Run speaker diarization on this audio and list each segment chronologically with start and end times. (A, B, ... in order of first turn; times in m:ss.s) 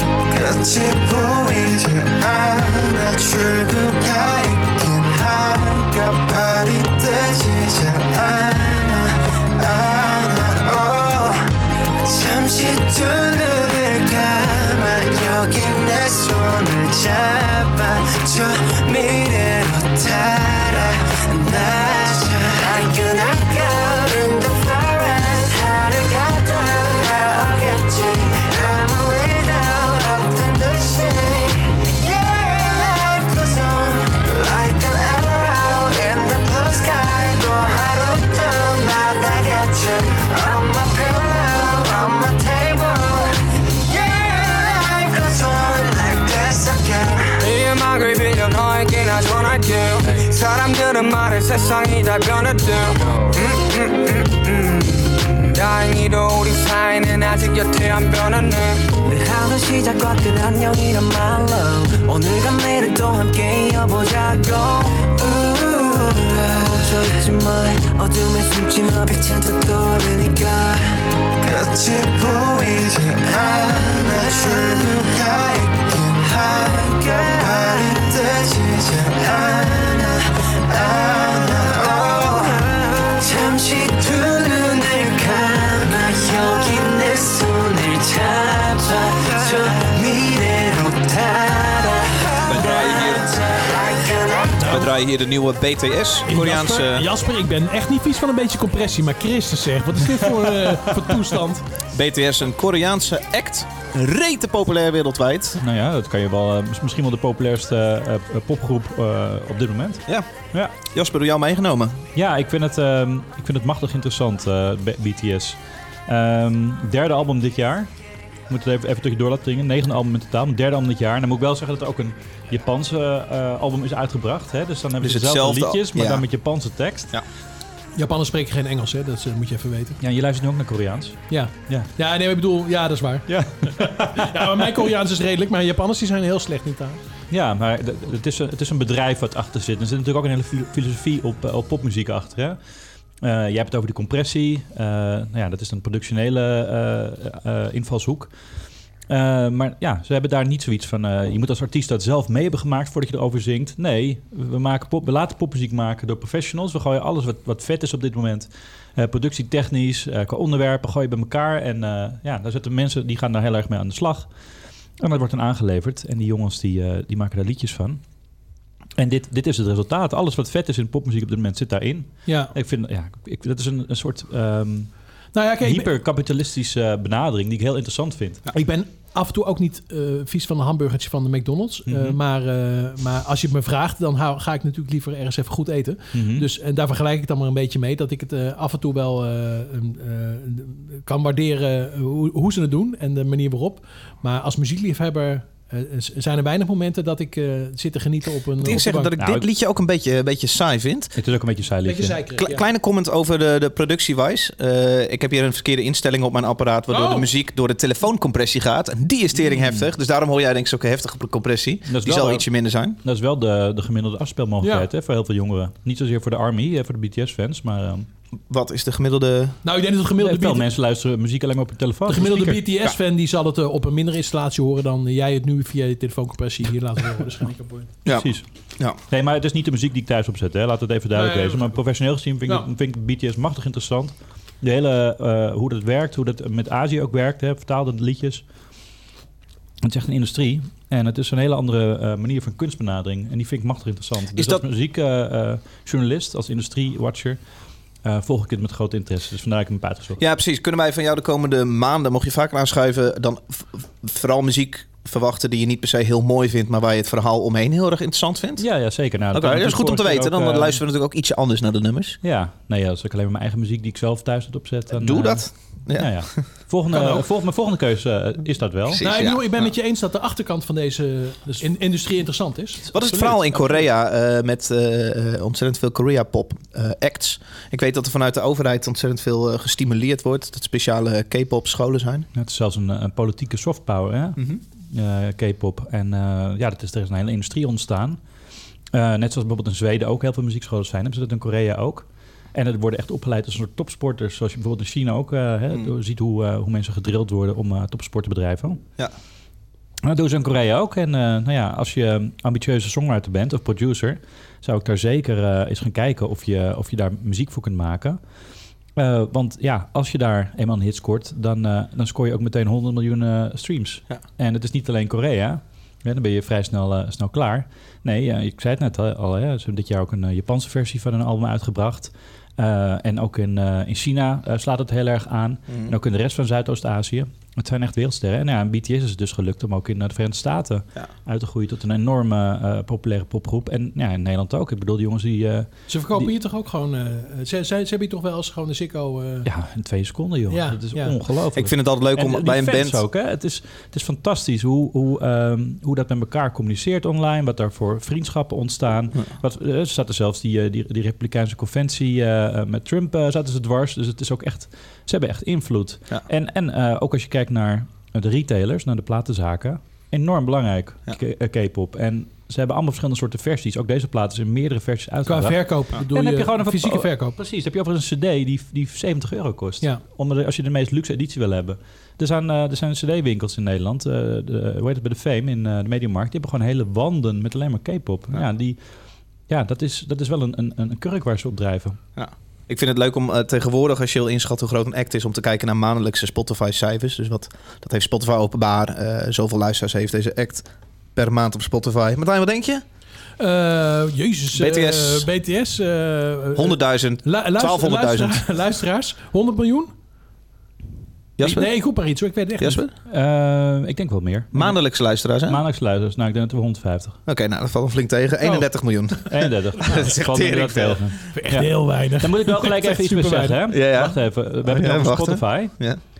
0:00.3-0:47.4 A
0:47.4-0:58.9 B
0:59.0-1:34.9 A
1:32.5-1:33.3 C
1:34.6-1:37.1 C
1:36.2-1:41.6 D
1:41.9-1:45.6 C
1:45.6-1:50.0 E
1:50.8-1:52.0 C
1:52.2-1:57.9 E
1:58.5-2:07.1 E
2:05.0-2:06.2 C
2:08.0-2:10.0 D
2:10.0-2:11.9 E
2:11.3-2:17.0 D
2:13.3-2:14.7 E
2:17.3-2:22.6 E
2:23.2-2:28.3 E
2:29.1-2:44.3 E
2:45.0-2:48.0 E
2:49.0-2:54.9 E
2:52.3-2:52.5 D
2:55.3-2:55.9 D
2:55.6-2:58.4 E
2:58.5-3:19.1 D
3:01.9-3:02.2 E
3:06.1-3:06.4 E
3:18.6-3:21.1 C
3:19.2-3:19.4 E
3:21.2-3:22.2 E
3:21.8-3:22.6 D
3:22.4-3:33.0 C
3:26.9-3:27.3 D
3:29.4-3:29.9 E
3:31.9-3:32.4 E
3:33.0-3:38.1 E
3:34.6-3:34.9 D
3:38.5-3:39.6 C
3:39.6-3:40.6 D
3:40.2-3:42.6 E
3:42.1-3:47.9 D
3:48.0-3:49.0 C
3:48.1-3:48.4 E
3:49.1-3:58.4 E
3:51.1-3:51.8 D
3:59.8-4:07.4 E
4:04.3-4:04.6 C
4:08.0-4:10.2 E
4:10.2-4:18.6 C
4:18.6-4:20.8 E
4:19.3-4:22.2 C
4:22.2-4:29.0 E
4:24.9-4:26.4 C
4:26.9-4:27.2 D
4:29.0-4:29.6 C
4:29.0-4:33.6 D
4:32.9-4:42.3 C
4:42.3-4:48.2 E
4:48.9-4:58.8 E
5:00.0-5:08.2 E
5:09.0-5:36.3 E
5:35.9-5:39.5 D
5:39.4-6:18.8 E
5:40.5-5:41.1 D
5:41.5-5:43.0 C
6:05.2-6:07.4 D
6:19.5-6:22.0 E
6:22.2-6:32.8 C
6:33.4-6:39.9 D
6:34.6-6:35.3 C
6:36.5-6:38.4 C
6:41.4-6:41.7 C
6:41.4-6:42.8 D
6:42.6-6:42.9 C
6:43.1-6:44.8 E
6:44.5-6:45.6 C
6:45.4-6:47.2 E
6:47.3-6:51.0 C
6:49.3-6:55.7 E
6:51.3-6:53.6 D
6:53.7-6:56.0 C